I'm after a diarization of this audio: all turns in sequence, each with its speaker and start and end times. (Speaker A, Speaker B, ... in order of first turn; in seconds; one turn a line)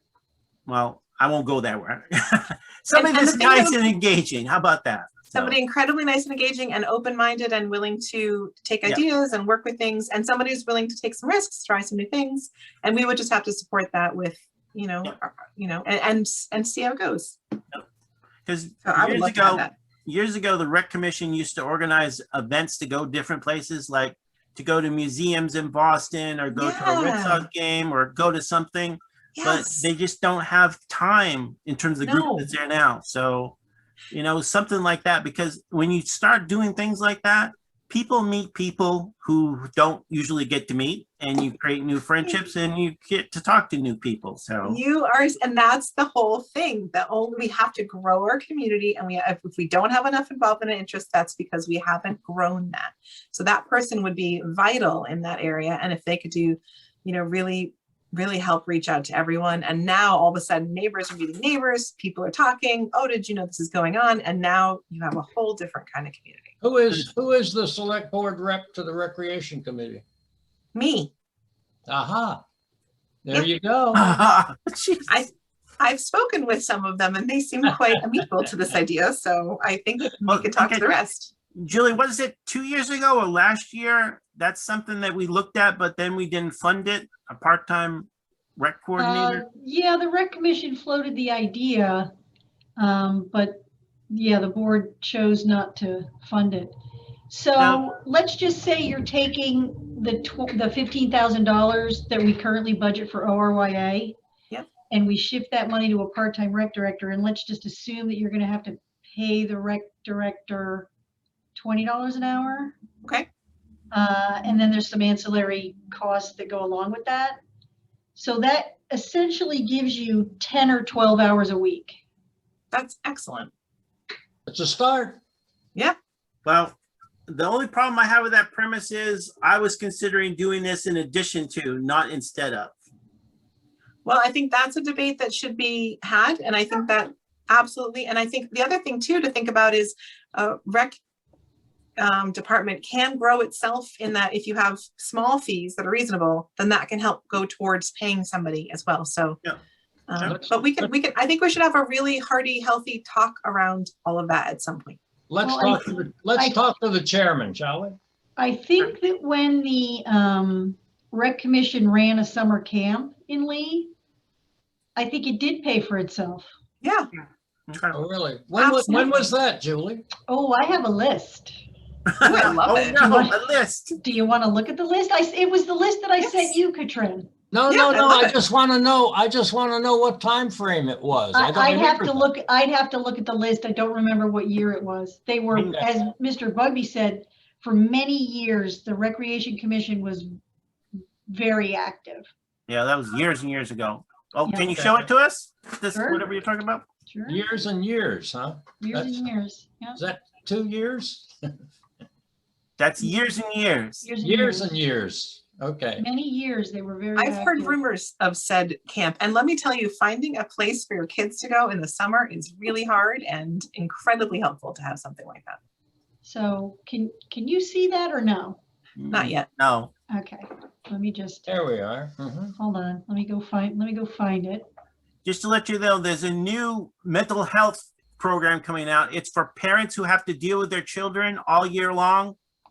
Speaker A: 0.7-5.6
Speaker B: 2.9-3.8
Speaker B: 5.3-17.4
Speaker A: 18.5-33.6
Speaker B: 18.8-19.7
Speaker B: 26.6-27.5
Speaker B: 29.4-29.8
Speaker B: 32.0-32.5
Speaker A: 34.1-44.8
Speaker B: 44.6-66.5
Speaker C: 66.6-70.0
Speaker B: 70.8-71.1
Speaker C: 71.9-72.4
Speaker C: 73.2-74.1
Speaker A: 73.9-75.2
Speaker B: 75.1-81.3
Speaker A: 80.3-80.9
Speaker A: 81.6-89.5
Speaker D: 89.0-92.1
Speaker D: 92.8-96.8
Speaker D: 97.3-104.2
Speaker A: 97.6-97.8
Speaker D: 104.9-110.9
Speaker D: 111.6-112.8
Speaker D: 113.9-117.4
Speaker D: 118.2-122.0
Speaker B: 122.7-123.5
Speaker C: 124.5-125.2
Speaker A: 126.5-126.8
Speaker A: 127.3-132.8
Speaker B: 134.1-141.0
Speaker B: 142.0-149.4
Speaker B: 150.1-155.0
Speaker C: 150.2-150.9
Speaker C: 155.3-158.0
Speaker D: 155.4-156.6
Speaker D: 158.4-163.9
Speaker D: 165.0-166.5
Speaker B: 166.8-167.1
Speaker A: 167.7-168.0
Speaker C: 167.9-170.1
Speaker B: 168.6-169.3
Speaker D: 170.3-171.6
Speaker A: 172.1-174.0
Speaker B: 172.2-173.1
Speaker D: 173.0-173.4
Speaker D: 174.0-177.3
Speaker B: 176.2-176.5
Speaker C: 177.5-182.2
Speaker B: 177.7-178.3
Speaker D: 181.3-190.4
Speaker A: 185.6-185.8
Speaker D: 191.3-192.3
Speaker A: 192.7-196.8
Speaker D: 194.4-194.7
Speaker D: 195.9-196.3
Speaker D: 197.1-197.4
Speaker C: 197.3-199.3
Speaker D: 198.8-200.0
Speaker C: 200.0-201.6
Speaker A: 202.8-204.1
Speaker D: 204.0-204.8
Speaker C: 204.2-206.0
Speaker D: 206.0-207.8
Speaker B: 207.2-215.6
Speaker D: 216.2-218.6
Speaker A: 219.0-219.9
Speaker B: 219.1-219.5
Speaker D: 220.1-221.5
Speaker C: 221.5-222.6
Speaker D: 222.6-224.7
Speaker A: 225.2-232.4